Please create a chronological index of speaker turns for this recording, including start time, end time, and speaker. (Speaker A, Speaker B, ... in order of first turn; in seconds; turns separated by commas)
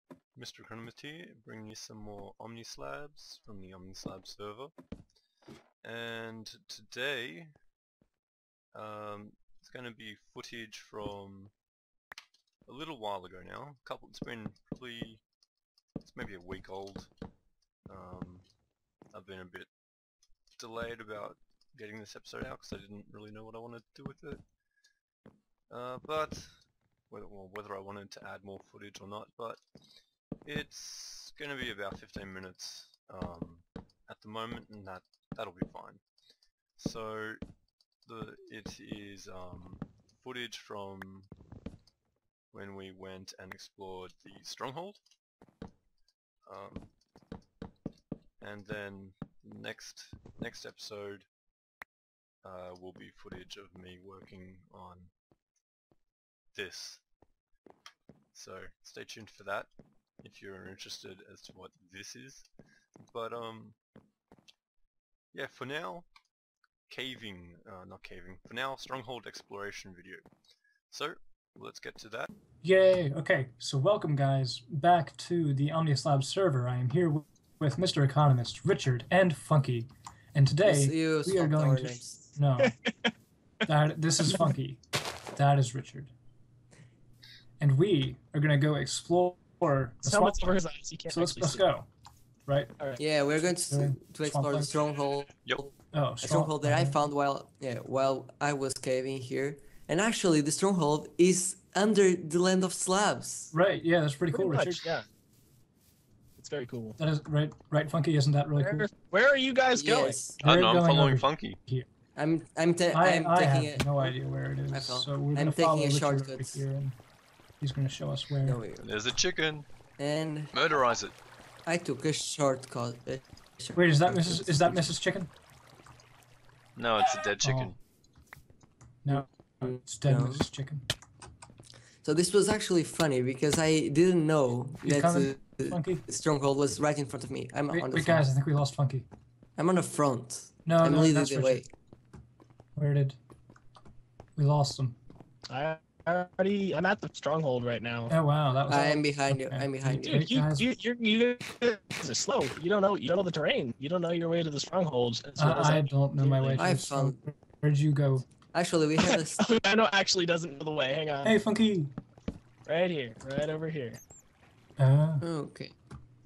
Speaker A: 0.3-4.7, Speaker A: 5.8-7.5, Speaker A: 8.7-11.5, Speaker A: 12.7-15.2, Speaker A: 16.0-17.1, Speaker A: 17.9-18.5, Speaker A: 19.1-19.7, Speaker A: 20.6-24.4, Speaker A: 25.7-26.5, Speaker A: 27.1-29.6, Speaker A: 30.4-36.0, Speaker A: 36.8-37.4, Speaker A: 38.0-41.3, Speaker A: 42.5-45.0, Speaker A: 46.5-46.9, Speaker A: 48.4-51.3, Speaker A: 52.4-55.1, Speaker A: 56.5-57.0, Speaker A: 58.3-59.7, Speaker A: 60.2-62.5, Speaker A: 63.1-63.8, Speaker A: 65.3-66.1, Speaker A: 66.9-70.3, Speaker A: 70.9-72.3, Speaker B: 72.6-82.7, Speaker C: 80.6-82.3, Speaker D: 82.6-83.1, Speaker B: 83.7-86.1, Speaker B: 87.6-91.9, Speaker D: 90.0-91.6, Speaker B: 92.5-92.7, Speaker C: 93.0-103.5, Speaker B: 93.5-94.7, Speaker B: 95.9-97.0, Speaker B: 103.5-104.8, Speaker D: 104.3-105.1, Speaker D: 106.4-107.0, Speaker B: 107.0-108.9, Speaker D: 108.5-110.2, Speaker C: 109.7-110.4, Speaker B: 110.4-111.9, Speaker A: 110.4-111.6, Speaker C: 112.2-114.2, Speaker B: 112.9-117.0, Speaker C: 114.7-116.6, Speaker B: 117.6-118.6, Speaker C: 118.4-118.9, Speaker A: 118.8-119.6, Speaker C: 120.0-120.5, Speaker A: 120.5-121.1, Speaker C: 121.7-125.0, Speaker B: 123.7-125.3, Speaker A: 126.8-127.8, Speaker B: 127.4-127.7, Speaker B: 129.0-130.8, Speaker C: 129.1-130.4, Speaker C: 132.0-138.2, Speaker B: 134.8-136.1, Speaker B: 137.7-139.1, Speaker C: 139.6-141.7, Speaker B: 140.7-141.6, Speaker B: 142.8-143.2, Speaker B: 144.4-145.0, Speaker D: 145.5-148.1, Speaker B: 148.1-150.7, Speaker C: 148.7-150.3, Speaker D: 150.0-156.7, Speaker B: 155.4-158.2, Speaker C: 156.6-157.2, Speaker C: 158.5-159.5, Speaker D: 159.0-161.3, Speaker B: 161.2-161.9, Speaker D: 162.7-164.0, Speaker B: 164.8-165.2, Speaker C: 165.2-165.7